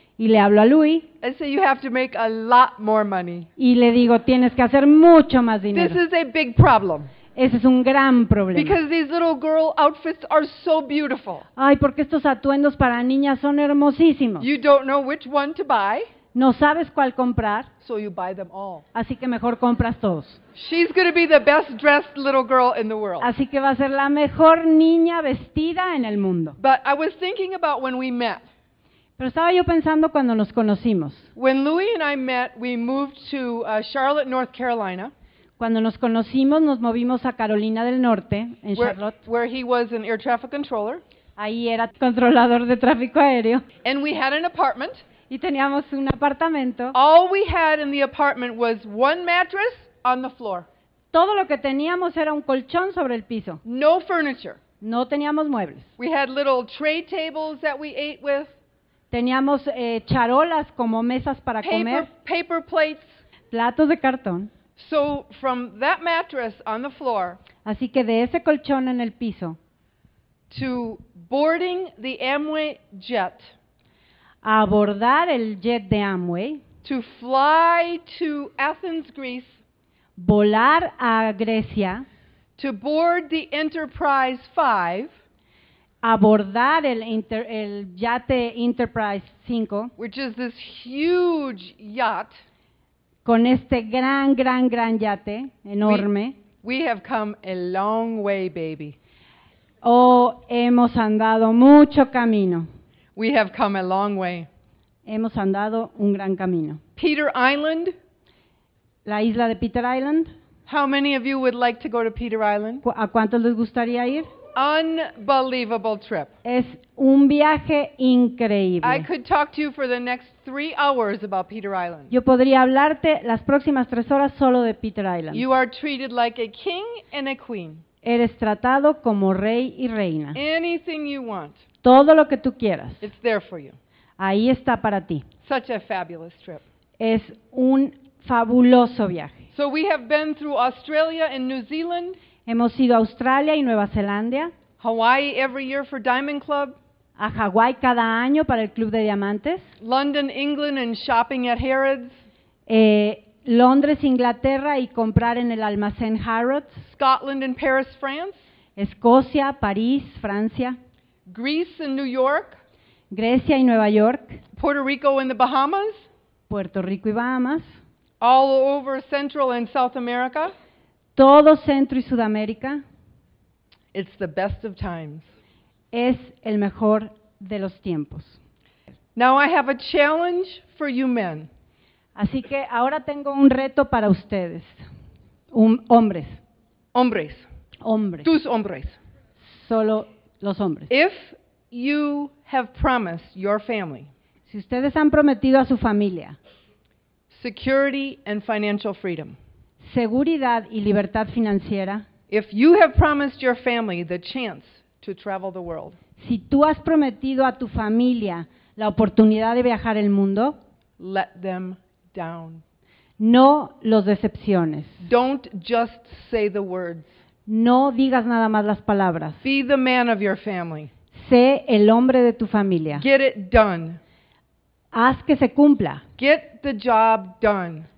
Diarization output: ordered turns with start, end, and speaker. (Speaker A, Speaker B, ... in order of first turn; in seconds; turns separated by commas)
Speaker A: 0.2-1.1, Speaker B: 1.2-3.5, Speaker A: 3.6-6.0, Speaker B: 5.7-7.1, Speaker A: 7.3-8.8, Speaker B: 8.5-11.4, Speaker A: 11.6-14.5, Speaker B: 14.4-16.1, Speaker A: 16.3-17.7, Speaker B: 17.8-18.8, Speaker A: 18.9-20.4, Speaker B: 20.6-23.3, Speaker A: 23.2-26.6, Speaker B: 26.6-28.4, Speaker A: 29.2-31.3, Speaker B: 31.3-35.1, Speaker A: 35.6-39.2, Speaker B: 38.8-41.0, Speaker A: 41.4-43.6, Speaker B: 43.8-45.0, Speaker A: 45.3-47.0, Speaker B: 46.9-50.7, Speaker A: 51.1-53.6, Speaker B: 53.6-54.6, Speaker A: 54.8-55.9, Speaker B: 56.0-58.5, Speaker A: 59.1-62.1, Speaker B: 61.6-63.2, Speaker A: 63.5-64.5, Speaker B: 64.8-67.4, Speaker A: 67.6-69.6, Speaker B: 70.5-73.5, Speaker A: 74.4-76.6, Speaker B: 76.8-79.5, Speaker A: 80.2-82.0, Speaker B: 82.6-85.1, Speaker A: 86.0-89.9, Speaker B: 90.0-92.4, Speaker A: 93.2-96.3, Speaker B: 96.6-99.0, Speaker A: 99.8-102.7, Speaker B: 103.2-104.5, Speaker A: 105.0-106.8, Speaker B: 107.0-107.9, Speaker A: 109.0-110.3, Speaker B: 110.7-112.8, Speaker A: 112.8-114.3, Speaker B: 114.5-116.3, Speaker A: 116.4-119.1, Speaker B: 118.8-122.1, Speaker A: 122.1-125.5, Speaker B: 125.3-127.8, Speaker A: 128.0-130.4, Speaker B: 130.3-131.6, Speaker A: 131.8-133.1, Speaker B: 133.0-133.8, Speaker A: 134.2-135.2, Speaker B: 135.4-136.6, Speaker A: 137.0-139.4, Speaker B: 139.5-142.2, Speaker A: 142.4-144.5, Speaker B: 144.8-146.8, Speaker A: 147.2-149.7, Speaker B: 149.8-152.2, Speaker A: 152.7-156.8, Speaker B: 156.8-158.4, Speaker A: 158.8-160.8, Speaker B: 161.3-162.6, Speaker A: 163.1-164.4, Speaker B: 164.6-166.0, Speaker A: 166.5-167.8, Speaker B: 168.2-170.5, Speaker A: 171.2-172.8, Speaker B: 173.9-175.3, Speaker A: 175.9-178.4, Speaker B: 179.2-181.5, Speaker A: 182.2-184.8, Speaker A: 185.5-186.4, Speaker B: 186.9-187.4, Speaker A: 187.8-188.3, Speaker B: 188.2-189.0, Speaker A: 189.4-190.9, Speaker B: 190.9-194.1, Speaker A: 194.5-196.4, Speaker B: 197.3-199.3, Speaker A: 199.8-202.0, Speaker B: 202.3-206.0, Speaker A: 206.2-210.6, Speaker B: 211.0-212.6, Speaker A: 213.2-215.0, Speaker B: 215.0-217.1, Speaker A: 217.4-219.4, Speaker B: 219.4-220.9, Speaker A: 221.1-223.1, Speaker B: 222.9-224.0, Speaker A: 224.9-226.0, Speaker B: 226.2-227.9